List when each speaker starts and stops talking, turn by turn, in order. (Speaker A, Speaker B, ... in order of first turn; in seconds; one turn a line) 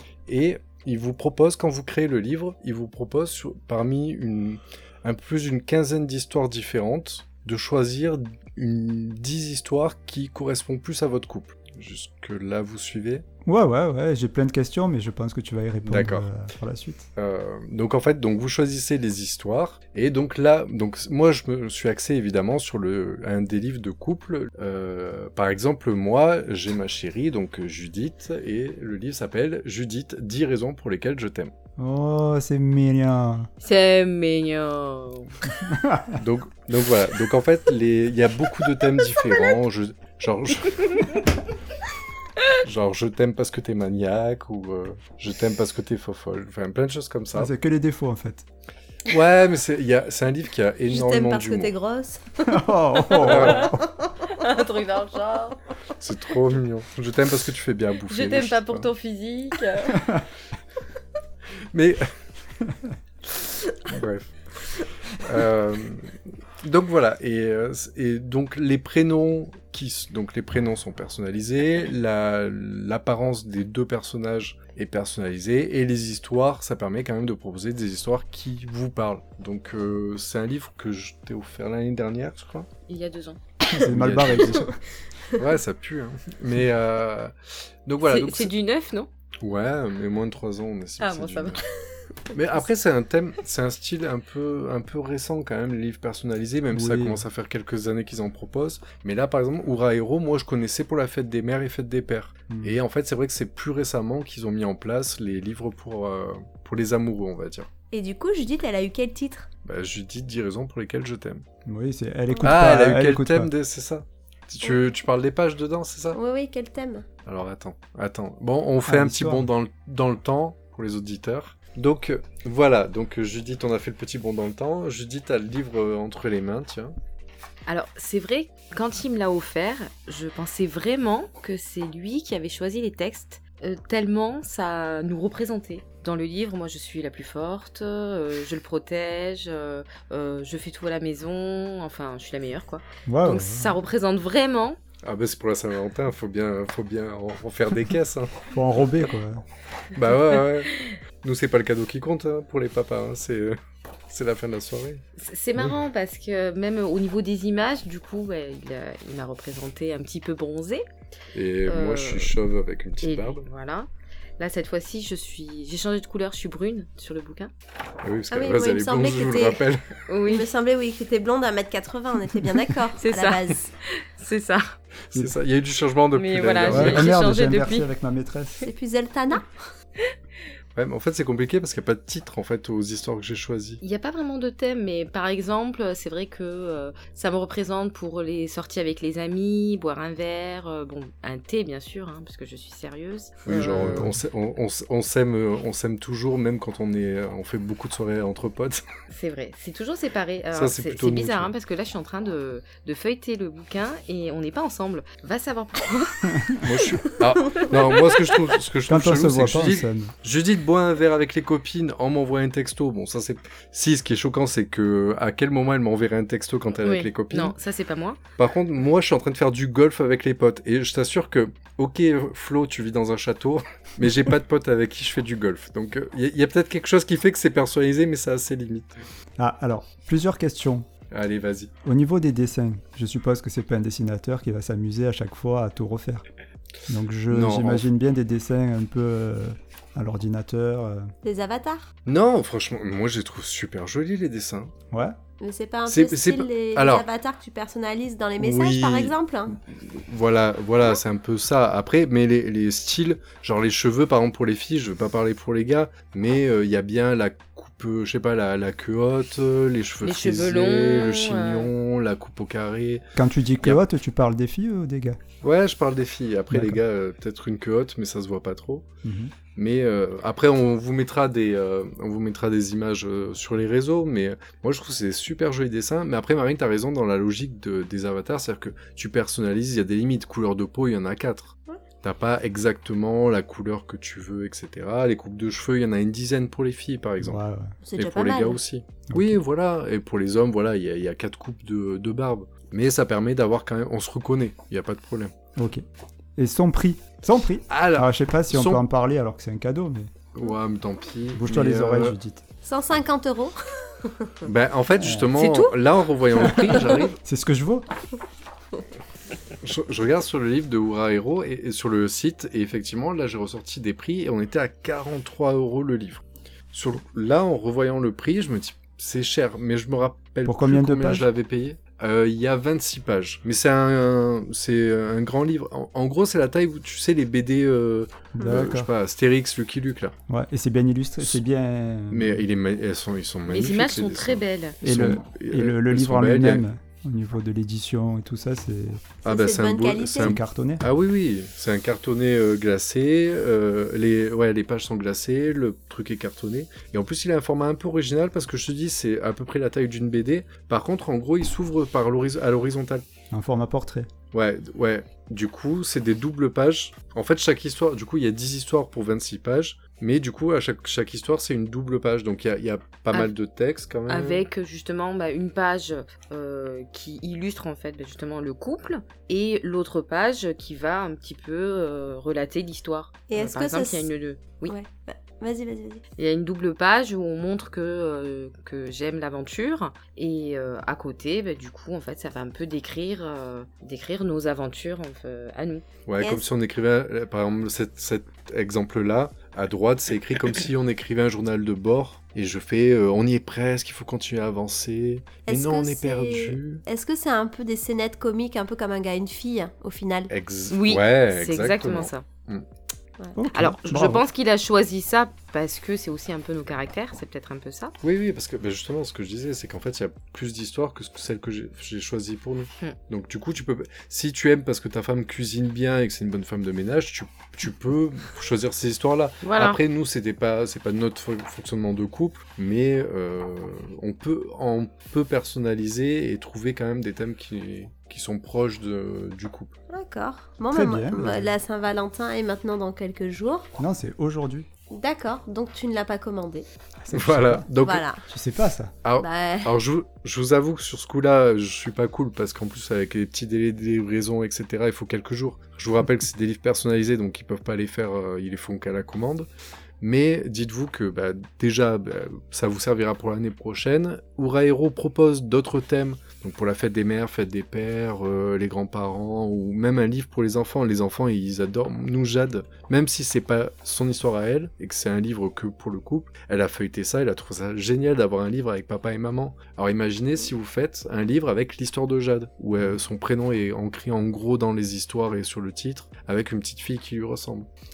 Speaker A: 0.3-13.2
Speaker B: 13.4-17.1
Speaker A: 15.8-16.3
Speaker A: 17.2-31.5
Speaker B: 31.8-33.5
Speaker C: 33.6-35.3
Speaker B: 35.6-36.2
Speaker A: 36.2-41.1
Speaker A: 42.6-47.5
Speaker B: 47.4-48.5
Speaker A: 49.1-51.7
Speaker D: 50.9-52.7
Speaker B: 52.5-53.9
Speaker A: 53.2-53.7
Speaker D: 53.8-54.3
Speaker C: 54.2-55.6
Speaker A: 56.0-58.9
Speaker C: 58.1-60.1
Speaker A: 61.7-62.1
Speaker A: 63.8-64.3
Speaker A: 65.2-82.7
Speaker C: 82.9-83.4
Speaker B: 83.7-84.8
Speaker A: 83.7-84.7
Speaker A: 85.4-87.3
Speaker A: 87.9-88.5
Speaker C: 88.0-89.1
Speaker A: 89.4-91.6
Speaker C: 91.0-91.7
Speaker A: 92.3-107.7
Speaker B: 96.7-97.2
Speaker B: 102.5-102.8
Speaker D: 107.9-109.5
Speaker A: 109.7-111.4
Speaker B: 111.7-113.5
Speaker A: 112.4-116.2
Speaker D: 116.1-117.1
Speaker A: 117.3-127.0
Speaker B: 118.8-119.5
Speaker C: 127.7-144.8
Speaker B: 143.1-143.8
Speaker A: 145.0-148.5
Speaker B: 148.5-149.4
Speaker A: 149.9-153.6
Speaker A: 154.1-155.0
Speaker C: 155.2-160.9
Speaker A: 161.3-163.5
Speaker C: 161.7-162.3
Speaker C: 163.0-167.5
Speaker A: 168.0-169.9
Speaker D: 168.3-169.6
Speaker C: 170.1-170.5
Speaker D: 170.2-173.7
Speaker C: 173.0-174.8
Speaker A: 175.1-177.1
Speaker C: 176.2-177.9
Speaker B: 176.7-178.6
Speaker D: 178.6-179.6
Speaker A: 180.8-183.8
Speaker C: 183.8-194.1
Speaker A: 193.5-198.8
Speaker C: 199.1-206.6
Speaker A: 200.5-201.5
Speaker A: 206.6-217.6
Speaker B: 208.9-210.1
Speaker C: 216.8-218.2
Speaker A: 218.4-229.0
Speaker B: 229.4-230.9
Speaker A: 231.1-231.7
Speaker B: 231.8-236.2
Speaker B: 236.9-241.1
Speaker A: 237.3-237.9
Speaker D: 241.2-241.9
Speaker A: 242.1-244.7
Speaker B: 244.9-245.2
Speaker D: 245.4-249.6
Speaker A: 245.9-247.1
Speaker A: 248.4-263.1
Speaker C: 260.0-261.7
Speaker B: 263.2-265.2
Speaker A: 265.4-268.9
Speaker B: 266.5-266.8
Speaker B: 269.0-269.3
Speaker A: 269.6-287.4
Speaker B: 287.2-287.8
Speaker D: 287.8-288.6
Speaker A: 288.0-295.3
Speaker B: 289.1-289.4
Speaker B: 295.6-295.8
Speaker B: 296.4-300.1
Speaker A: 297.7-298.8
Speaker A: 300.3-302.2
Speaker B: 301.4-302.4
Speaker D: 302.6-304.5
Speaker A: 304.4-307.2
Speaker B: 305.0-305.3
Speaker C: 305.4-305.8
Speaker B: 306.4-307.9
Speaker A: 309.6-330.1
Speaker B: 320.4-321.3
Speaker B: 328.4-328.9
Speaker B: 330.3-332.4
Speaker A: 332.1-336.6
Speaker C: 333.5-334.8
Speaker B: 334.8-339.1
Speaker A: 339.2-353.0
Speaker D: 339.3-340.4
Speaker B: 340.1-340.8
Speaker B: 353.3-354.1
Speaker A: 354.3-364.5
Speaker C: 364.1-374.8
Speaker D: 373.3-374.1
Speaker D: 374.7-376.0
Speaker C: 376.2-385.9
Speaker A: 386.1-396.8
Speaker D: 395.5-400.3
Speaker A: 400.3-402.6
Speaker C: 400.7-402.2
Speaker B: 403.4-404.2
Speaker C: 403.5-407.9
Speaker A: 408.0-429.7
Speaker C: 419.4-419.8
Speaker D: 429.9-433.7
Speaker B: 430.7-431.5
Speaker B: 433.8-434.7
Speaker D: 434.9-436.7
Speaker B: 437.0-437.7
Speaker A: 437.1-438.1
Speaker D: 437.8-438.2
Speaker B: 438.3-438.9
Speaker A: 439.0-449.5
Speaker D: 439.2-439.7
Speaker A: 450.0-477.7